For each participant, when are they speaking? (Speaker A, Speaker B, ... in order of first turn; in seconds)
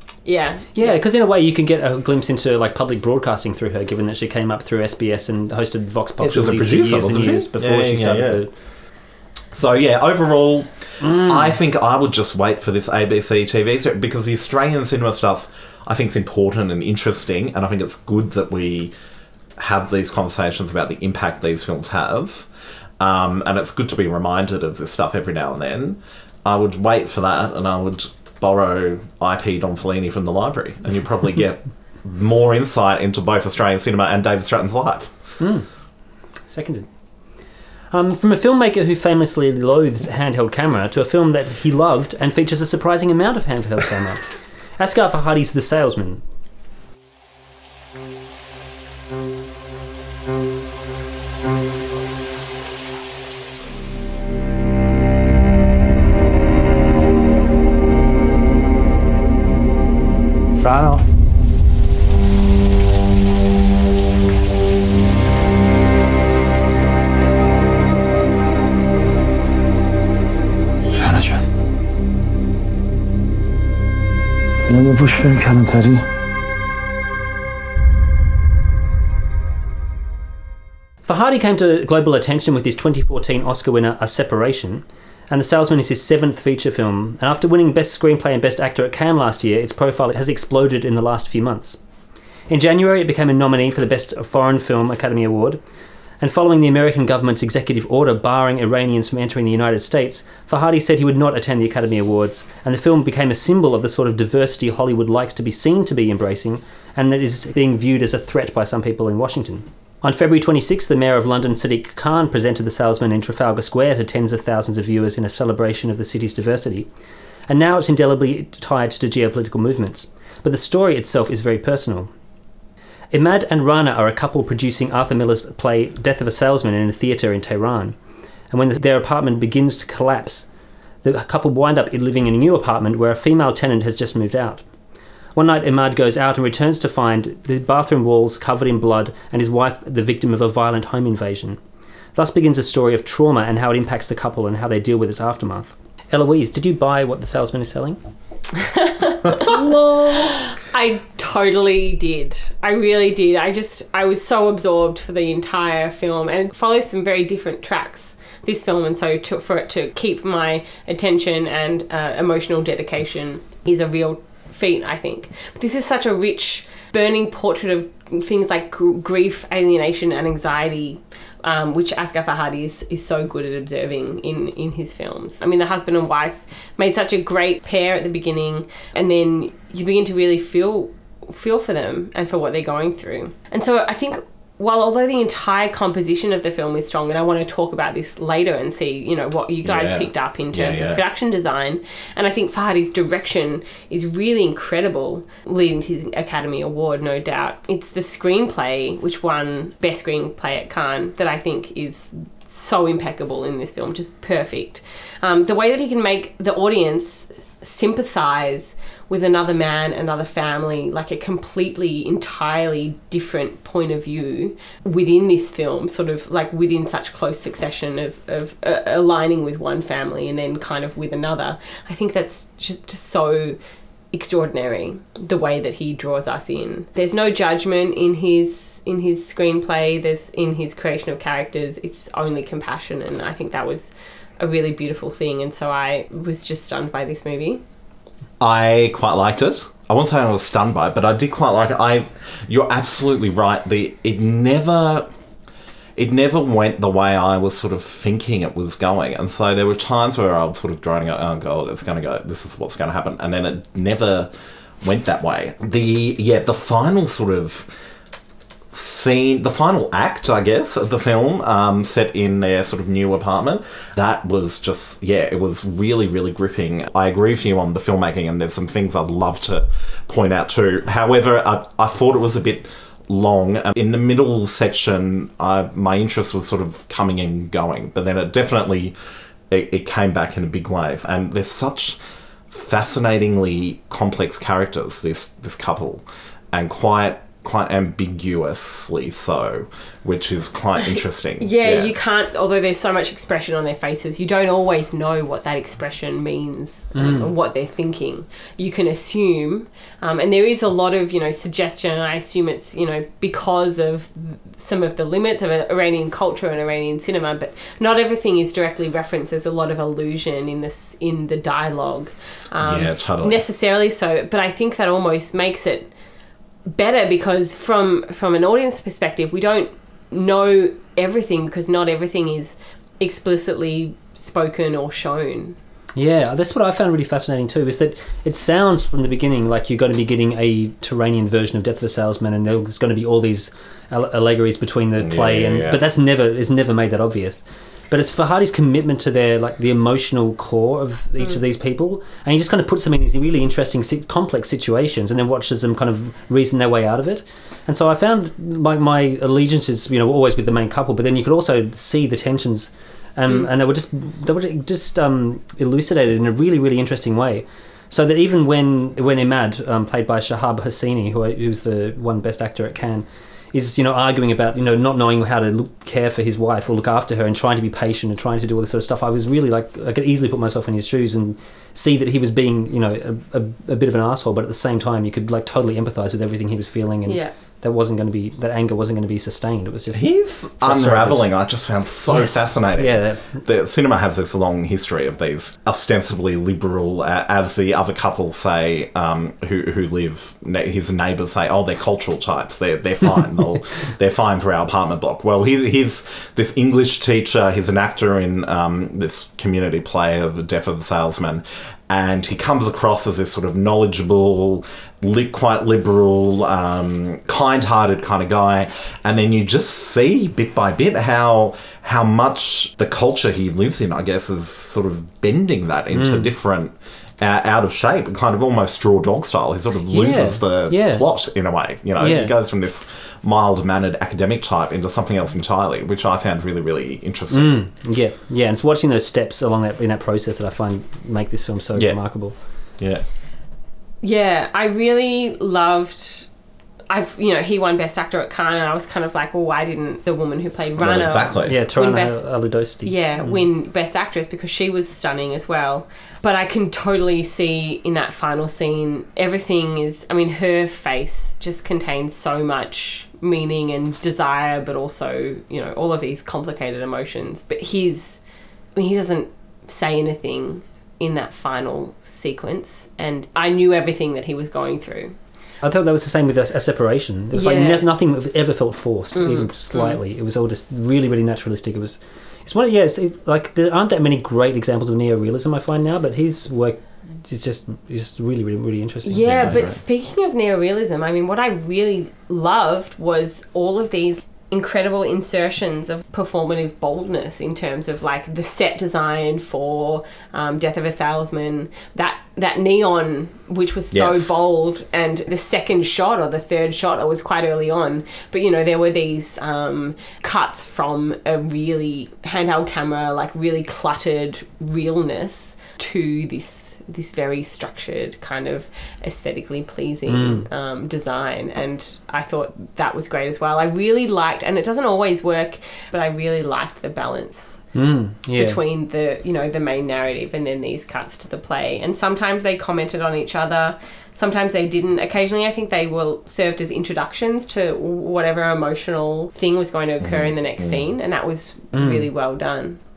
Speaker A: 0.2-1.0, 148.6-223.6, 224.1-237.6, 291.4-315.9, 316.7-325.6, 377.1-377.3, 434.0-436.3, 436.9-458.2, 458.8-465.2, 467.3-467.9, 469.1-470.0, 479.1-517.7, 518.4-532.8
Speaker B: 0.7-8.5, 11.0-11.6, 35.4-35.7, 36.5-36.9, 37.9-46.2, 81.0-91.8, 92.5-95.6, 96.2-116.9, 117.5-122.1, 123.1-128.0, 128.5-130.4, 131.0-134.6, 135.4-141.6, 142.2-148.0, 297.0-297.3, 325.9-380.1, 380.6-381.3, 382.1-383.4, 415.9-416.3, 419.9-421.1, 422.0-422.4, 427.3-432.4, 441.5-443.4, 465.6-479.6, 510.1-510.5, 517.8-518.6, 531.7-532.1
Speaker C: 6.2-8.4, 9.5-18.9, 19.6-22.5, 23.0-35.1, 189.7-191.0, 238.4-245.1, 246.0-254.3, 254.8-257.7, 258.7-278.9, 279.5-282.0, 282.5-291.9, 312.6-313.4, 335.0-335.8, 379.9-427.6, 431.8-432.2, 432.8-433.0, 440.8-441.6, 479.2-479.8, 493.9-494.4, 530.0-530.8
Speaker D: 60.6-61.0, 71.0-71.4, 74.7-76.0